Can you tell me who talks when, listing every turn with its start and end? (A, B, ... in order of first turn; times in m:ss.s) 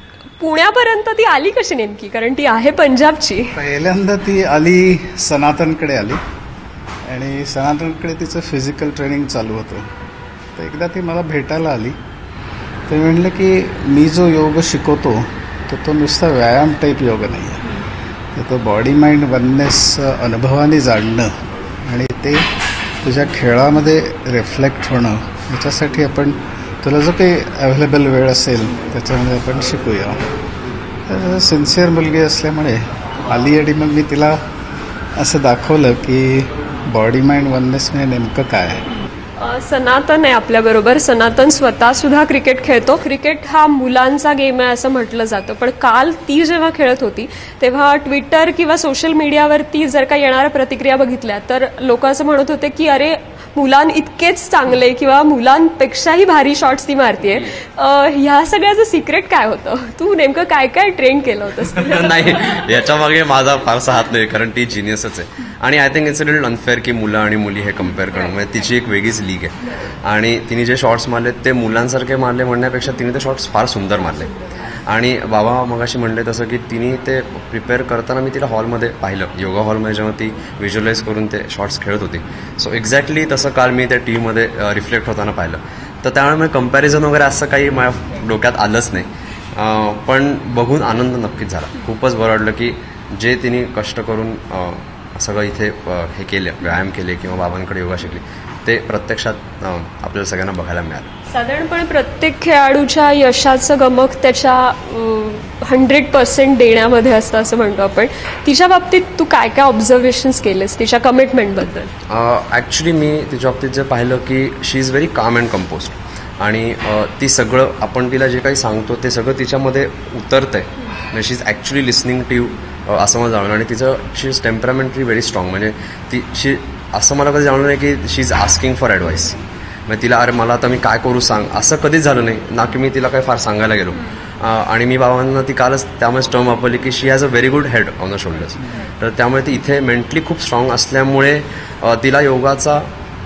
0:00.4-0:03.5 A
0:03.5-0:06.2 B
0:07.0-0:09.9 B
0:10.5-0:12.0 B
0:12.9-0:17.7 B
0:18.3-0:21.3 B
0:21.8-0:22.4 B
0:23.0-0:30.2 B
0:31.1-0:34.4 B
0:35.2-0:38.8 B
0:39.4-1:02.7 A
1:01.8-1:41.1 C
1:41.3-1:51.9 A
1:52.1-2:22.8 C